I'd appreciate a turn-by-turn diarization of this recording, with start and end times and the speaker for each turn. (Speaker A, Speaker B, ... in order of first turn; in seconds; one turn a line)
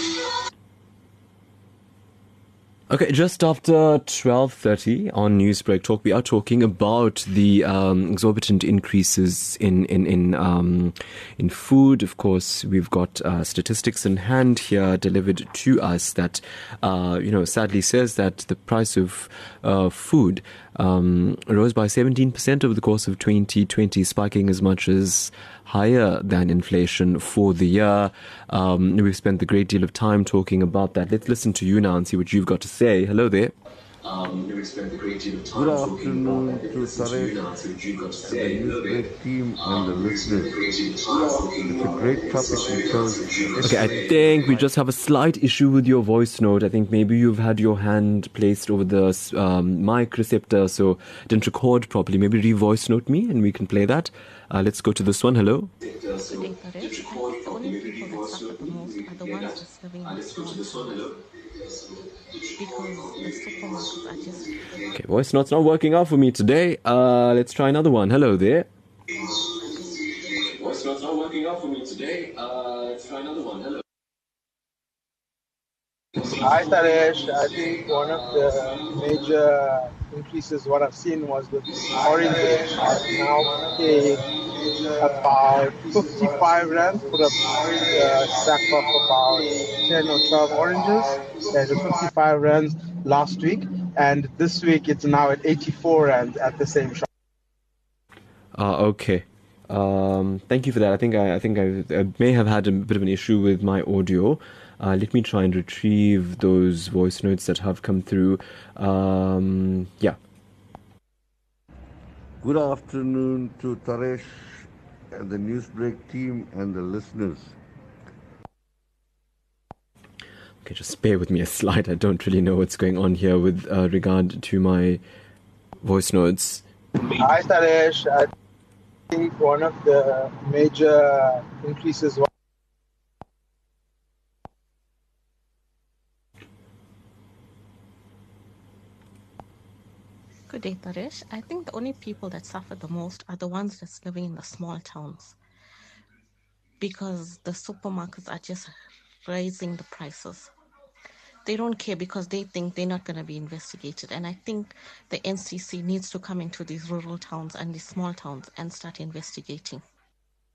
Speaker A: 2.9-39.1
Speaker B: 35.5-37.4
Speaker B: 38.2-40.5
Speaker A: 39.6-61.2
Speaker B: 41.3-44.7
Speaker C: 56.3-61.1
Speaker C: 62.6-64.6
Speaker A: 64.8-68.7
Speaker A: 70.2-73.8
Speaker D: 76.4-84.3
Speaker D: 85.0-97.1
Speaker A: 98.5-110.2
Speaker B: 112.4-117.5
Speaker A: 120.6-125.0
Speaker A: 125.8-126.6
Speaker D: 127.0-128.3
Speaker D: 129.1-132.3
Speaker C: 140.5-145.3
Speaker C: 146.8-148.7
Speaker C: 149.2-150.5
Speaker C: 151.4-159.8